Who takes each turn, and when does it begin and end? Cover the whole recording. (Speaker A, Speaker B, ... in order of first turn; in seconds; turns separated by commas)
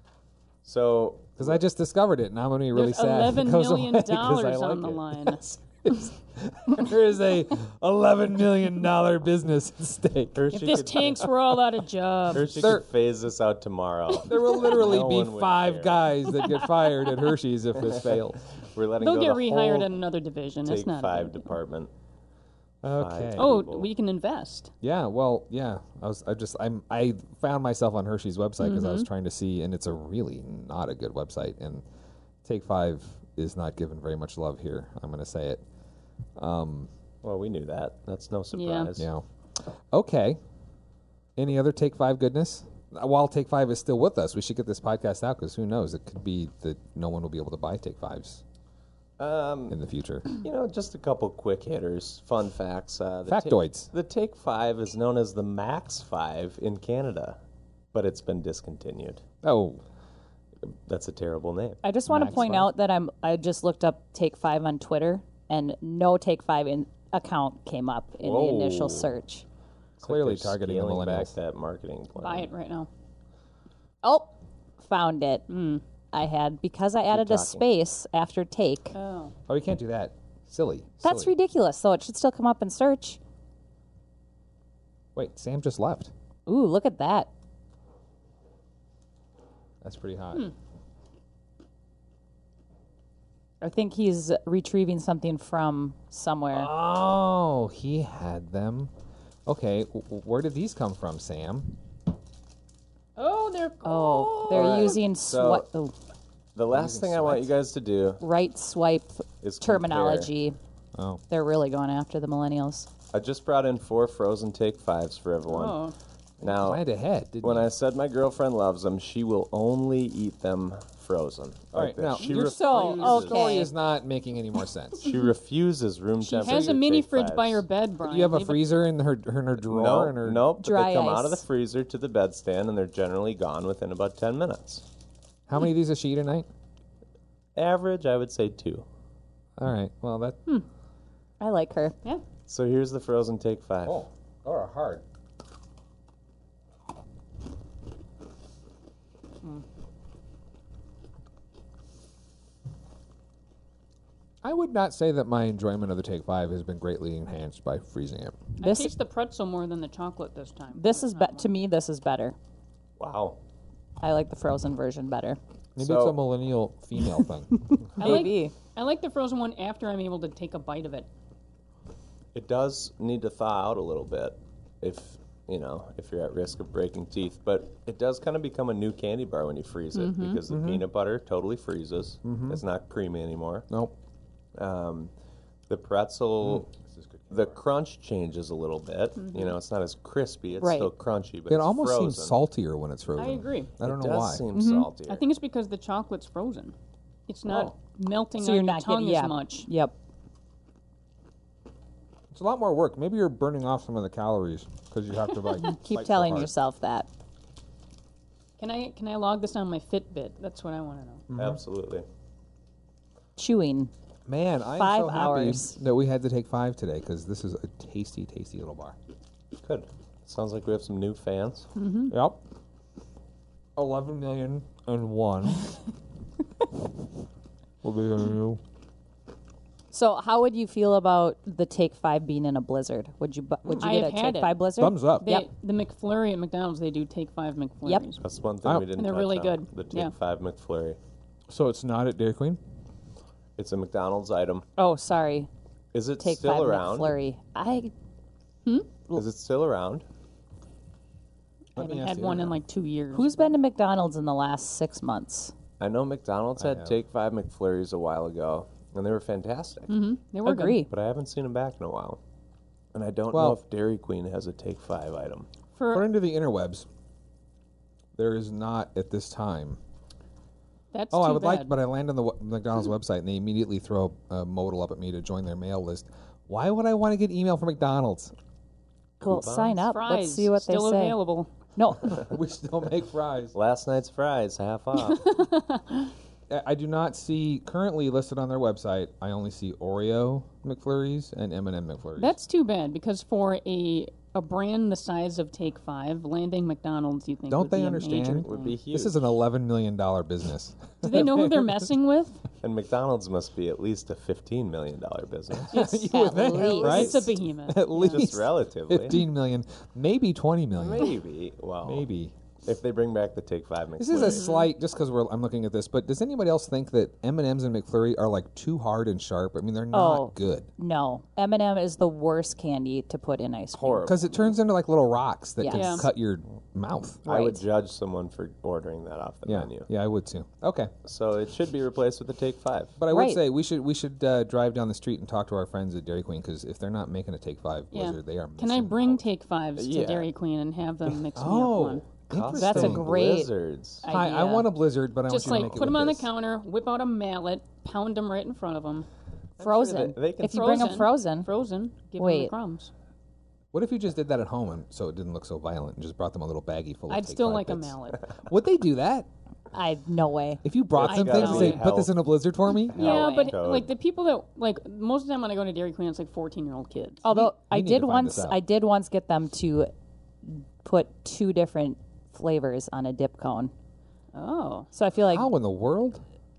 Speaker A: 0.6-1.6, Speaker B: 1.4-10.5, Speaker C: 2.7-5.4, Speaker A: 10.3-11.3, Speaker C: 10.5-12.8, Speaker A: 12.3-16.1, Speaker B: 12.5-12.9, Speaker B: 14.2-18.4, Speaker A: 17.8-20.0, Speaker C: 19.0-21.5, Speaker A: 20.6-21.9, Speaker B: 22.8-23.5, Speaker A: 22.9-23.9, Speaker C: 23.4-24.7, Speaker B: 24.8-31.8, Speaker C: 28.6-29.1, Speaker B: 32.4-35.6, Speaker B: 36.4-36.9, Speaker A: 37.2-39.1, Speaker C: 38.5-38.9, Speaker B: 39.0-39.2, Speaker B: 39.9-40.4, Speaker B: 41.4-48.4, Speaker A: 49.2-49.8, Speaker B: 49.7-50.3, Speaker A: 50.3-57.4, Speaker B: 53.2-53.9, Speaker A: 57.9-59.2, Speaker B: 59.4-59.8, Speaker A: 60.9-61.8, Speaker D: 61.8-69.4, Speaker B: 62.1-62.7, Speaker A: 68.2-69.1, Speaker A: 70.0-72.5, Speaker B: 70.0-71.3, Speaker C: 72.2-72.9, Speaker D: 74.0-75.5, Speaker C: 75.5-75.8, Speaker D: 76.1-79.0, Speaker A: 77.1-77.6, Speaker C: 78.9-79.3, Speaker B: 79.5-81.3, Speaker D: 81.0-83.2, Speaker B: 85.1-86.1, Speaker D: 86.5-87.3, Speaker B: 89.8-90.5, Speaker D: 93.6-96.7, Speaker B: 96.5-98.9, Speaker B: 99.5-101.8, Speaker C: 103.2-105.0, Speaker D: 103.8-105.9, Speaker A: 104.5-105.7, Speaker A: 106.5-108.2, Speaker B: 106.7-107.5, Speaker D: 108.2-110.5, Speaker A: 109.4-110.3, Speaker B: 110.9-111.2, Speaker D: 111.3-112.9, Speaker A: 113.1-115.8, Speaker C: 115.5-115.9, Speaker A: 116.4-116.8, Speaker B: 116.4-117.7, Speaker A: 117.4-123.6, Speaker B: 121.7-125.1, Speaker D: 122.2-123.7, Speaker A: 125.0-127.6, Speaker C: 126.2-128.7, Speaker B: 128.0-130.5, Speaker A: 129.6-134.8, Speaker D: 130.6-131.4, Speaker B: 135.5-136.5, Speaker A: 137.5-138.8, Speaker B: 139.6-140.4, Speaker D: 141.4-142.0, Speaker A: 142.4-144.1, Speaker B: 143.8-145.0, Speaker B: 154.4-158.5, Speaker C: 158.6-161.5, Speaker D: 158.6-158.9, Speaker D: 160.7-162.3, Speaker A: 163.0-163.4, Speaker D: 164.0-165.4, Speaker B: 165.8-167.8, Speaker A: 165.8-166.2, Speaker D: 167.7-168.5, Speaker C: 168.0-171.1, Speaker A: 172.3-183.7, Speaker C: 179.9-180.4, Speaker B: 180.5-180.8, Speaker B: 182.2-182.6, Speaker A: 184.5-185.1, Speaker A: 185.7-186.7, Speaker B: 186.4-187.6, Speaker A: 187.3-192.4, Speaker C: 189.2-189.6, Speaker D: 190.6-190.9, Speaker B: 191.5-194.5, Speaker C: 193.2-193.7, Speaker A: 193.8-195.2, Speaker D: 194.5-194.9, Speaker C: 195.1-196.7, Speaker C: 197.3-199.7, Speaker D: 198.4-199.9, Speaker B: 202.3-206.5, Speaker D: 205.5-207.1, Speaker C: 208.6-211.2, Speaker B: 211.3-211.6, Speaker A: 211.3-212.1, Speaker D: 213.4-213.9, Speaker B: 214.2-218.9, Speaker D: 214.7-215.8, Speaker A: 219.6-221.7, Speaker C: 221.8-222.1, Speaker B: 222.1-222.4, Speaker B: 223.8-225.7, Speaker B: 227.8-228.6, Speaker D: 229.9-235.5, Speaker B: 233.6-233.9, Speaker C: 233.8-238.2, Speaker B: 234.8-235.3, Speaker A: 238.2-241.0, Speaker B: 238.6-238.9, Speaker C: 238.9-240.1, Speaker B: 241.5-242.6, Speaker A: 243.6-244.7, Speaker D: 244.8-245.5, Speaker A: 245.9-247.1, Speaker D: 246.2-247.9, Speaker A: 249.1-250.0, Speaker B: 251.8-252.6, Speaker C: 251.8-253.6, Speaker D: 253.1-255.5, Speaker A: 255.8-260.0, Speaker B: 256.6-257.0, Speaker C: 259.9-260.9, Speaker D: 260.4-260.9, Speaker A: 260.9-262.2, Speaker A: 262.9-265.5, Speaker B: 263.3-263.6, Speaker C: 265.8-266.1, Speaker B: 265.9-266.9, Speaker B: 268.1-269.8, Speaker C: 270.9-271.7, Speaker B: 271.1-278.3, Speaker D: 279.2-281.2, Speaker A: 279.2-279.8, Speaker C: 279.8-281.5, Speaker D: 281.7-282.2, Speaker B: 282.0-283.5, Speaker A: 283.5-285.4, Speaker C: 284.9-286.1, Speaker B: 286.5-292.4, Speaker C: 292.2-298.7, Speaker B: 297.5-301.8, Speaker A: 298.1-299.4, Speaker C: 301.0-302.4, Speaker A: 302.6-306.0, Speaker B: 305.6-311.2, Speaker C: 305.7-308.0, Speaker D: 306.1-307.3, Speaker A: 308.0-309.2, Speaker A: 310.7-312.1, Speaker B: 311.8-312.3, Speaker A: 312.6-314.5, Speaker B: 314.0-320.7, Speaker C: 314.1-314.7, Speaker D: 319.9-324.1, Speaker A: 323.7-324.5, Speaker B: 324.1-327.2, Speaker D: 325.6-326.1, Speaker C: 325.7-326.1, Speaker D: 327.2-327.6, Speaker A: 327.2-329.9, Speaker B: 329.4-330.9, Speaker A: 331.0-333.0, Speaker B: 333.0-339.3, Speaker D: 333.1-333.4, Speaker C: 337.9-342.1, Speaker A: 339.8-340.3, Speaker B: 341.3-343.1, Speaker A: 342.3-344.1, Speaker D: 342.5-343.5, Speaker D: 344.0-344.7, Speaker B: 344.1-346.3, Speaker C: 345.3-349.1, Speaker A: 345.4-345.8, Speaker A: 349.6-350.9, Speaker D: 349.6-351.5, Speaker C: 350.4-352.9, Speaker D: 352.2-352.5, Speaker B: 353.7-359.3, Speaker C: 357.1-358.3, Speaker D: 359.7-360.6, Speaker B: 360.6-363.2, Speaker A: 360.9-362.1, Speaker C: 361.0-361.8, Speaker A: 362.9-363.9, Speaker C: 362.9-367.2, Speaker D: 362.9-363.6, Speaker D: 367.2-369.9, Speaker B: 367.3-368.6, Speaker D: 370.4-373.7, Speaker C: 374.3-374.9, Speaker D: 374.9-375.5, Speaker B: 375.2-376.2